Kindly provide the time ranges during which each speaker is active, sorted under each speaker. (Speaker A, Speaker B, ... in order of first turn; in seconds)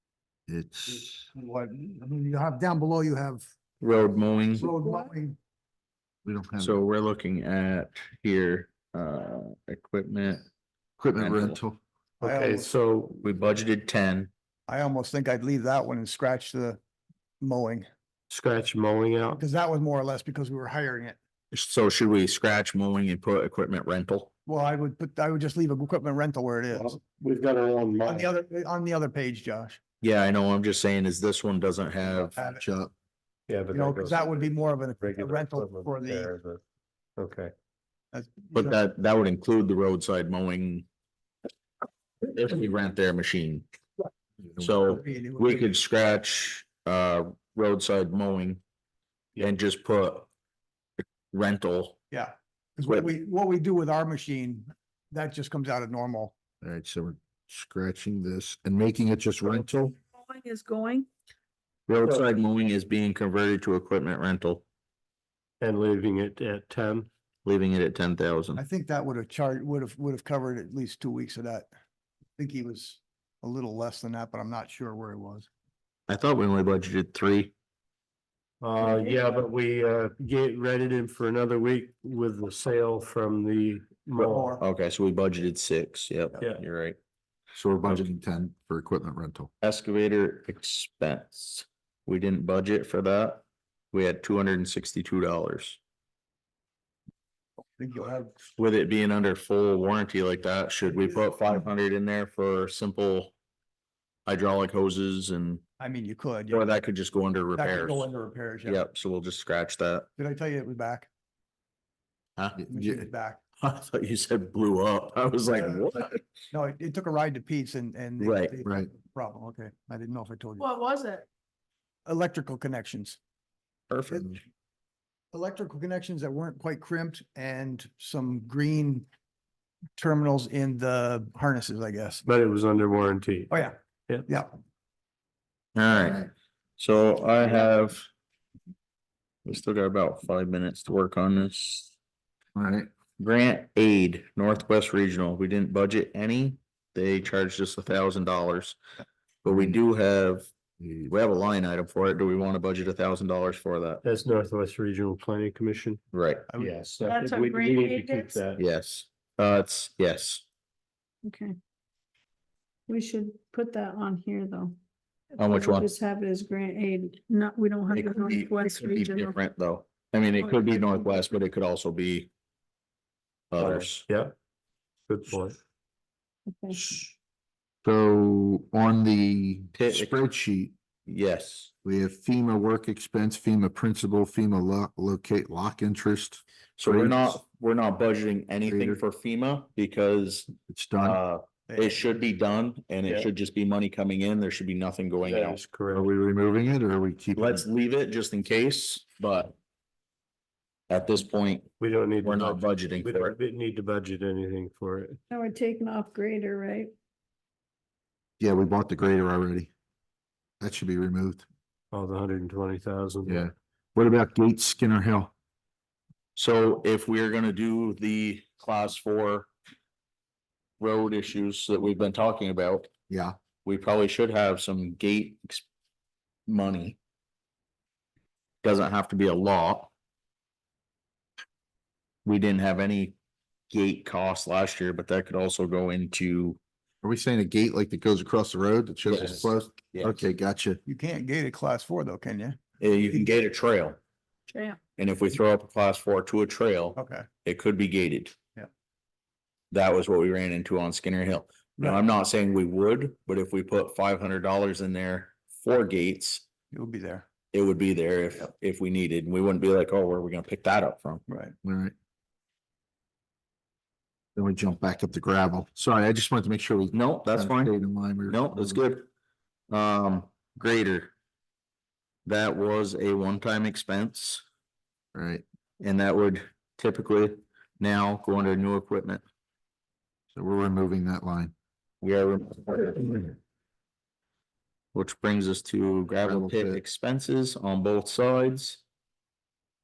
Speaker A: 0.5-1.2, 6.2-6.8, 11.0-11.8, 32.4-32.9, 56.6-59.9, 87.5-89.5, 112.6-113.1, 118.6-118.9, 135.9-136.2, 142.6-142.9, 149.5-149.8, 150.8-151.1, 177.8-180.7, 181.8-187.4, 188.6-189.0, 190.7-191.2, 195.9-197.6, 208.4-209.7, 210.6-211.4, 213.3-215.3, 223.1-223.3, 237.0-240.8, 261.6-261.9, 264.3-268.8, 275.1-275.4, 280.3-281.5, 286.2-286.8
Speaker B: 0.9-3.5, 4.5-5.4, 12.2-12.7, 14.7-16.8, 17.4-17.9, 19.4-21.2, 24.4-27.0, 28.0-29.8, 32.1-32.6, 33.7-36.3, 38.1-38.8, 44.8-45.7, 52.1-56.3, 68.5-71.7, 72.4-75.5, 84.2-84.6, 97.8-98.4, 105.8-106.7, 107.5-108.8, 110.2-111.1, 112.7-113.4, 115.5-115.9, 116.5-120.7, 122.0-123.2, 124.1-124.3, 125.3-129.1, 130.0-132.2, 133.5-134.5, 156.5-156.8, 191.7-192.0, 240.8-242.6, 246.9-247.3, 251.8-252.0, 256.7-257.3, 261.3-261.5
Speaker C: 3.8-4.7, 6.6-10.4, 11.2-11.6, 13.2-14.3, 21.5-24.3, 30.0-32.4, 38.5-40.9, 42.2-43.6, 44.6-48.6, 49.4-50.3, 51.3-52.0, 61.9-64.6, 67.4-68.6, 76.1-77.5, 84.6-87.0, 89.6-95.8, 98.6-103.3, 104.2-105.6, 106.5-108.1, 108.6-110.1, 113.6-116.2, 118.2-118.5, 123.9-124.4, 135.7-138.1, 139.4-141.9, 143.2-148.8, 149.4-150.5, 151.1-154.0, 156.1-156.5, 158.6-160.4, 165.4-165.9, 167.9-172.3, 173.5-174.1, 179.7-180.2, 181.1-181.7, 186.8-195.6, 197.3-199.5, 200.9-201.7, 202.2-203.3, 216.3-219.5, 220.8-222.9, 223.6-225.6, 226.5-227.0, 228.6-229.9, 232.2-233.1, 233.7-236.6, 239.0-240.2, 242.8-244.0, 245.0-248.3, 249.7-256.4, 257.5-261.2, 266.9-269.1, 269.7-271.1, 272.2-274.4, 275.8-279.2, 282.0-283.3, 284.9-288.8
Speaker D: 12.2-13.2, 18.3-19.4, 26.7-28.3, 33.5-36.6, 37.2-37.5, 65.6-67.1, 78.6-84.5, 132.2-134.2, 154.0-156.0, 156.6-158.6, 173.6-174.3, 175.1-175.6, 195.2-196.1, 201.8-205.2, 211.9-213.4
Speaker E: 60.1-61.1, 78.8-79.2, 120.6-121.2, 157.0-158.4, 161.2-161.5, 162.9-164.8, 165.4-169.4, 170.5-171.1, 176.5-176.9, 205.3-206.9, 244.5-244.8